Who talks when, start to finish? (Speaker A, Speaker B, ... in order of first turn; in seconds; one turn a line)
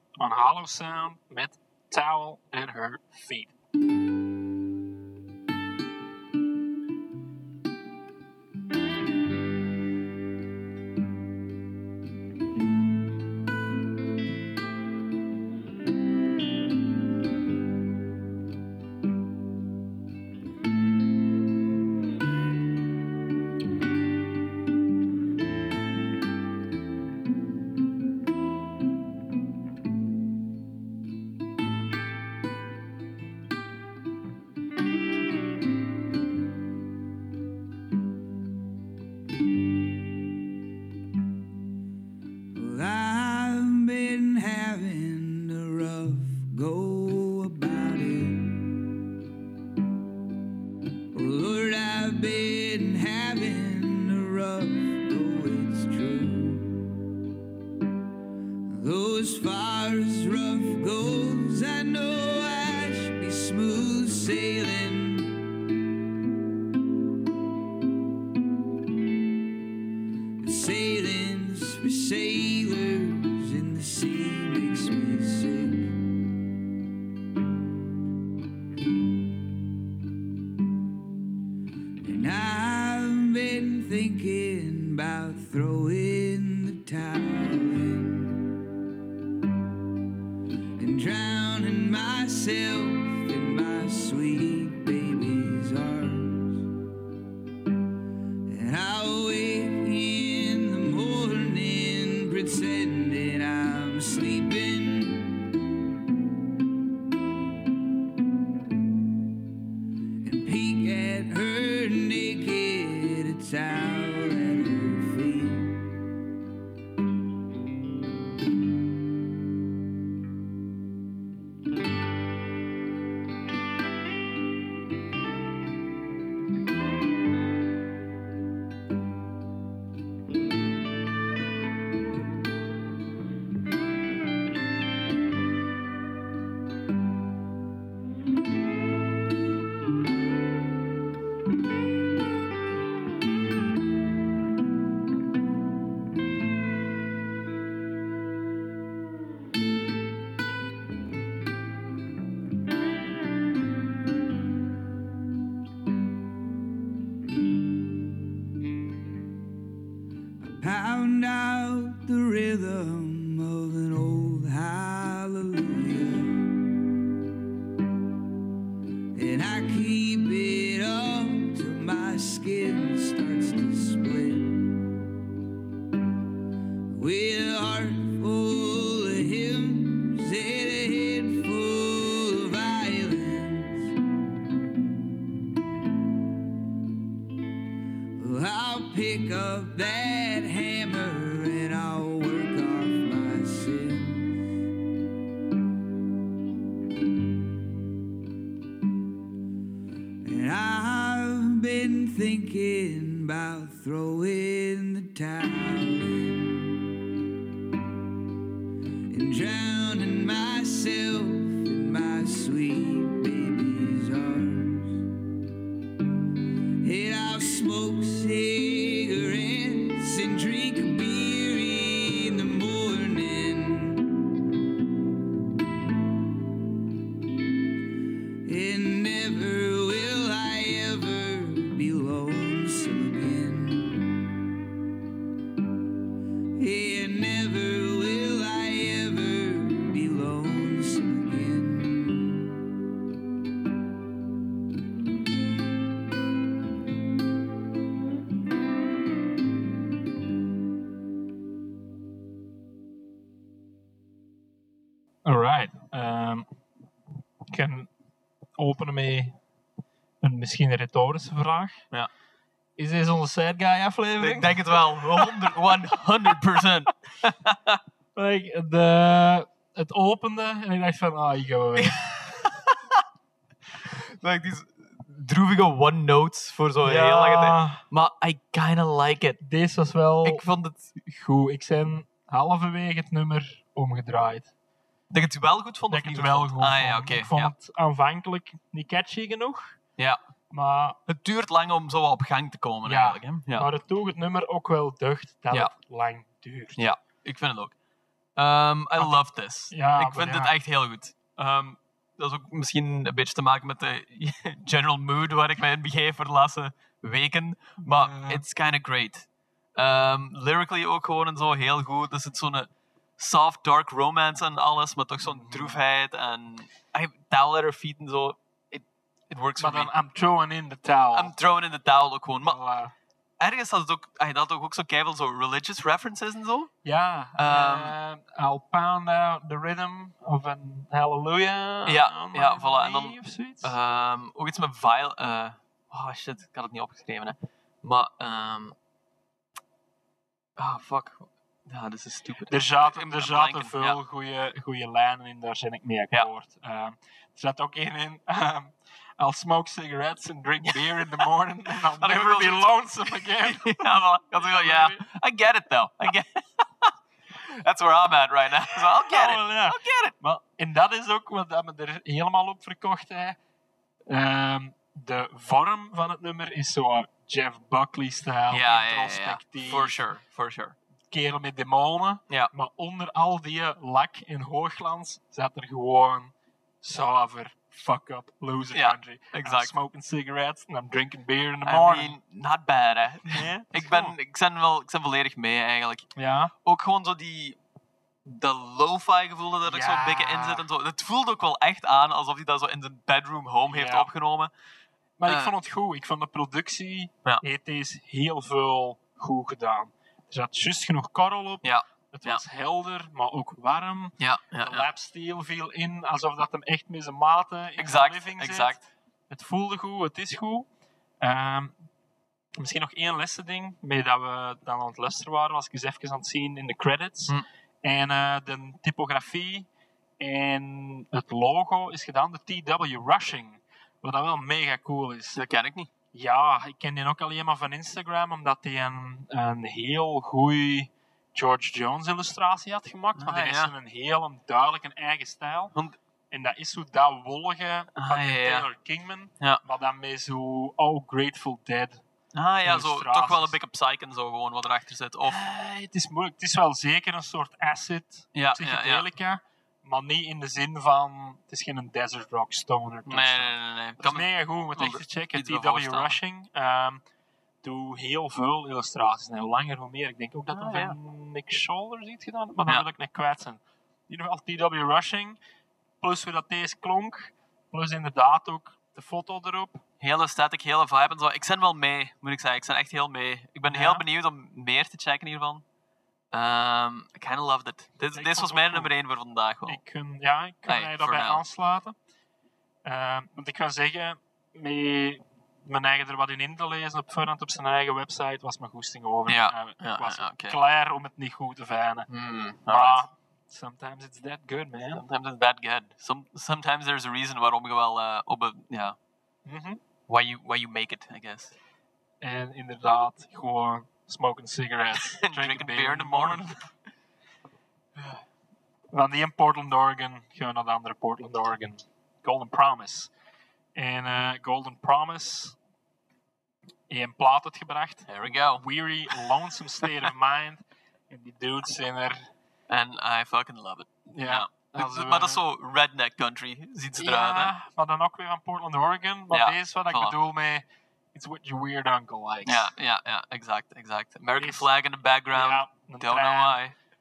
Speaker A: 0.2-3.5
Speaker B: 42.5-48.7
Speaker B: 51.1-56.7
Speaker B: 58.7-65.4
Speaker B: 70.4-75.9
Speaker B: 82.0-88.4
Speaker B: 90.8-96.6
Speaker B: 98.5-105.3
Speaker B: 110.2-115.9
Speaker B: 160.4-166.5
Speaker B: 169.1-174.6
Speaker B: 176.9-183.9
Speaker B: 188.2-194.4
Speaker B: 200.2-206.8
Speaker B: 209.1-215.0
Speaker B: 216.8-224.0
Speaker B: 228.4-234.0
Speaker B: 236.6-242.4
Speaker A: 255.2-256.5
Speaker A: 257.5-257.9
Speaker A: 258.6-259.4
Speaker A: 260.2-261.8
Speaker A: 262.8-265.5
Speaker C: 264.2-267.6
Speaker A: 268.1-272.0
Speaker C: 271.8-272.8
Speaker C: 273.8-279.4
Speaker A: 276.8-277.8
Speaker A: 279.4-280.4
Speaker C: 280.2-280.9
Speaker A: 281.0-284.5
Speaker C: 285.1-287.5
Speaker A: 285.9-289.8
Speaker A: 290.5-291.0
Speaker C: 291.1-293.7
Speaker A: 292.8-296.9
Speaker C: 296.8-297.7
Speaker C: 298.4-319.9
Speaker A: 299.0-300.5
Speaker A: 307.8-308.4
Speaker A: 315.2-315.8
Speaker A: 319.6-321.3
Speaker C: 321.1-322.6
Speaker A: 322.4-322.9
Speaker C: 323.4-326.7
Speaker A: 326.8-333.7
Speaker C: 327.4-327.9
Speaker C: 331.9-338.7
Speaker C: 340.6-344.0
Speaker A: 342.5-355.0
Speaker C: 350.7-351.2
Speaker C: 352.0-360.1
Speaker A: 359.0-363.4
Speaker A: 364.1-370.0
Speaker C: 368.5-370.8
Speaker A: 371.1-382.1
Speaker C: 378.7-379.7
Speaker C: 381.6-386.1
Speaker A: 383.3-384.1
Speaker A: 386.1-386.5
Speaker C: 386.6-387.6
Speaker C: 388.2-394.5
Speaker A: 389.6-390.6
Speaker A: 393.7-394.1
Speaker A: 395.2-410.7
Speaker C: 395.3-395.5
Speaker C: 401.6-402.4
Speaker C: 404.2-404.9
Speaker C: 407.8-408.8
Speaker A: 411.2-411.8
Speaker A: 412.6-419.7
Speaker A: 420.2-425.4
Speaker C: 425.3-425.9
Speaker A: 426.1-435.7
Speaker C: 433.2-433.7
Speaker A: 436.3-442.0
Speaker C: 437.9-438.6
Speaker C: 442.3-445.4
Speaker A: 442.6-443.5
Speaker A: 445.2-457.0
Speaker C: 448.3-449.0
Speaker C: 453.1-456.1
Speaker A: 457.6-465.4
Speaker C: 460.5-460.9
Speaker A: 466.0-469.8
Speaker C: 470.0-475.6
Speaker A: 473.7-474.0
Speaker C: 476.3-479.8
Speaker A: 478.1-478.9
Speaker A: 479.6-481.9
Speaker C: 480.6-481.4
Speaker A: 482.8-492.1
Speaker C: 489.3-490.6
Speaker C: 492.1-493.0
Speaker A: 492.6-495.0
Speaker C: 494.9-498.9
Speaker A: 499.4-499.8
Speaker C: 500.1-501.5
Speaker A: 502.2-506.6
Speaker C: 505.1-506.5
Speaker A: 508.9-513.1
Speaker A: 513.7-515.5
Speaker A: 516.9-522.3
Speaker C: 518.1-518.6
Speaker C: 522.7-527.5
Speaker A: 524.1-525.4
Speaker A: 527.0-532.7
Speaker C: 529.3-530.1
Speaker C: 532.5-536.7
Speaker A: 534.4-534.7
Speaker A: 535.3-536.6